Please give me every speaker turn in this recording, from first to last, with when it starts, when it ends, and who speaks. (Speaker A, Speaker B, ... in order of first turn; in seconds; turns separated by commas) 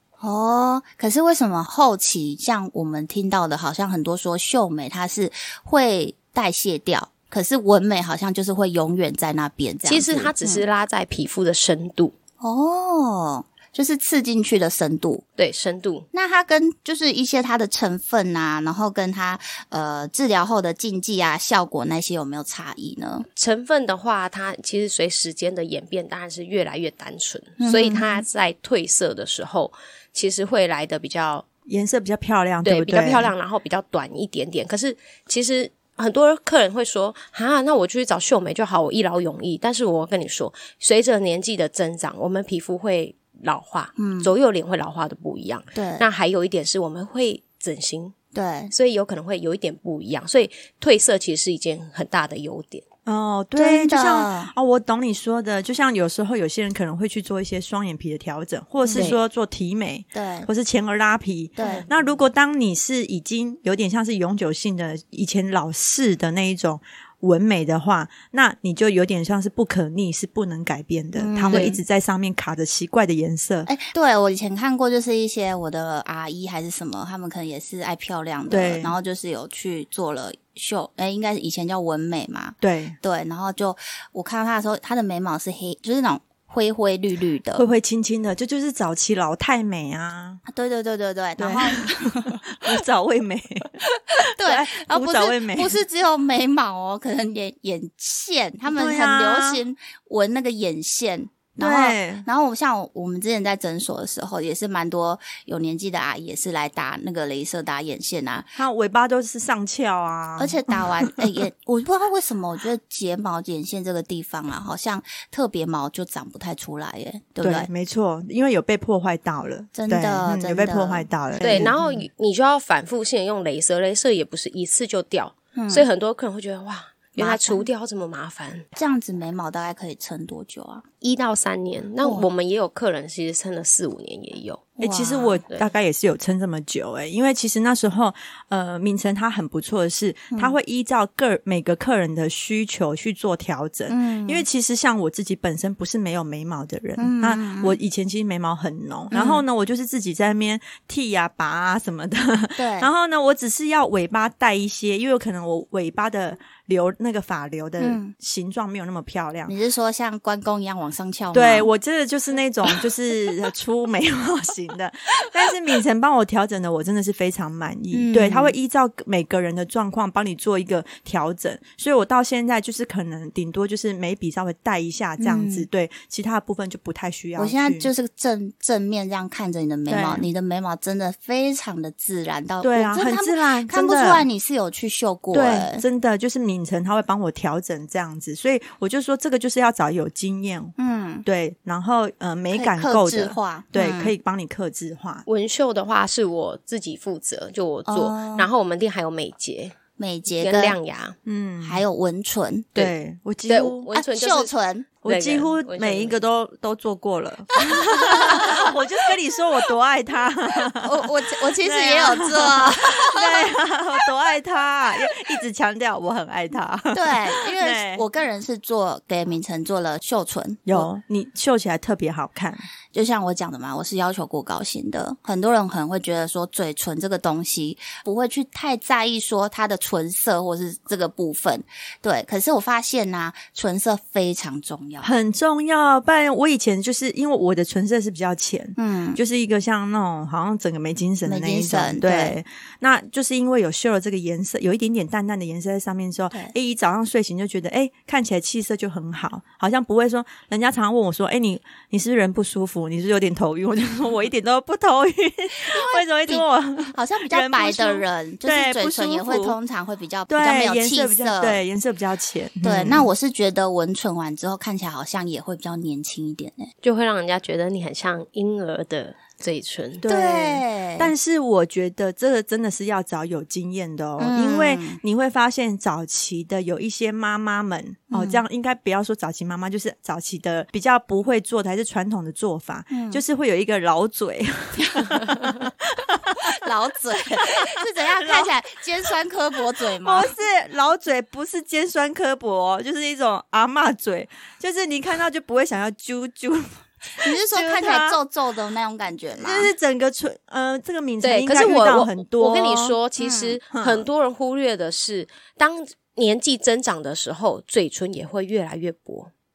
Speaker A: 0.2-10.6, Speaker B: 9.9-12.1, Speaker A: 12.4-15.2, Speaker B: 15.4-16.1, Speaker A: 16.1-23.3, Speaker B: 23.4-31.4, Speaker A: 27.6-28.2, Speaker C: 31.7-33.3, Speaker B: 32.6-48.1, Speaker A: 44.0-44.3, Speaker A: 45.7-46.0, Speaker A: 48.3-48.7, Speaker B: 48.7-52.8, Speaker C: 53.0-73.7, Speaker A: 53.5-54.5, Speaker A: 58.8-59.1, Speaker A: 60.1-60.5, Speaker A: 61.6-61.9, Speaker B: 61.6-61.9, Speaker A: 71.2-71.8, Speaker B: 71.5-71.8, Speaker A: 73.7-87.7, Speaker C: 78.5-78.9, Speaker C: 82.6-83.0, Speaker C: 87.5-90.4, Speaker A: 90.5-92.5, Speaker C: 91.4-95.8, Speaker A: 93.9-108.5, Speaker C: 98.7-99.6, Speaker C: 101.6-102.2, Speaker C: 108.5-111.3, Speaker A: 110.4-117.7, Speaker C: 117.4-121.8, Speaker A: 119.7-122.0, Speaker B: 121.4-128.7, Speaker A: 125.5-125.8, Speaker A: 127.2-127.7, Speaker A: 128.8-130.8, Speaker B: 131.0-134.7, Speaker A: 132.0-132.3, Speaker A: 134.8-135.4, Speaker C: 134.8-159.5, Speaker A: 143.9-144.4, Speaker A: 147.0-147.8, Speaker A: 149.1-149.4, Speaker A: 152.6-152.9, Speaker A: 157.8-158.1, Speaker A: 159.5-161.7, Speaker C: 161.3-177.9, Speaker A: 167.9-168.5, Speaker A: 175.2-175.7, Speaker A: 177.3-185.8, Speaker C: 179.9-180.3, Speaker C: 182.6-184.2, Speaker C: 185.3-195.2, Speaker A: 190.8-191.2, Speaker A: 192.5-194.1, Speaker B: 195.2-199.8, Speaker A: 197.9-198.5, Speaker A: 200.0-200.8, Speaker B: 200.4-201.2, Speaker C: 201.2-201.8, Speaker A: 201.6-202.7, Speaker C: 202.7-203.9, Speaker B: 203.5-204.5, Speaker A: 203.9-204.9, Speaker C: 205.0-218.0, Speaker B: 205.0-206.2, Speaker A: 207.6-208.7, Speaker A: 210.7-213.5, Speaker A: 216.9-220.9, Speaker C: 220.7-222.7, Speaker A: 222.9-235.1, Speaker C: 235.0-259.6, Speaker A: 238.8-239.2, Speaker A: 241.2-242.3, Speaker A: 255.6-261.6, Speaker C: 260.3-263.1, Speaker A: 262.6-266.7, Speaker B: 266.8-270.0, Speaker C: 270.0-286.5, Speaker A: 270.1-271.1, Speaker A: 274.2-275.0, Speaker A: 278.1-278.4, Speaker A: 282.9-283.2, Speaker A: 284.8-285.2, Speaker A: 286.4-290.3, Speaker C: 287.8-288.5, Speaker C: 290.0-298.2, Speaker A: 297.2-299.7, Speaker C: 299.4-303.0, Speaker B: 301.2-309.3, Speaker A: 303.2-303.6, Speaker C: 303.7-304.1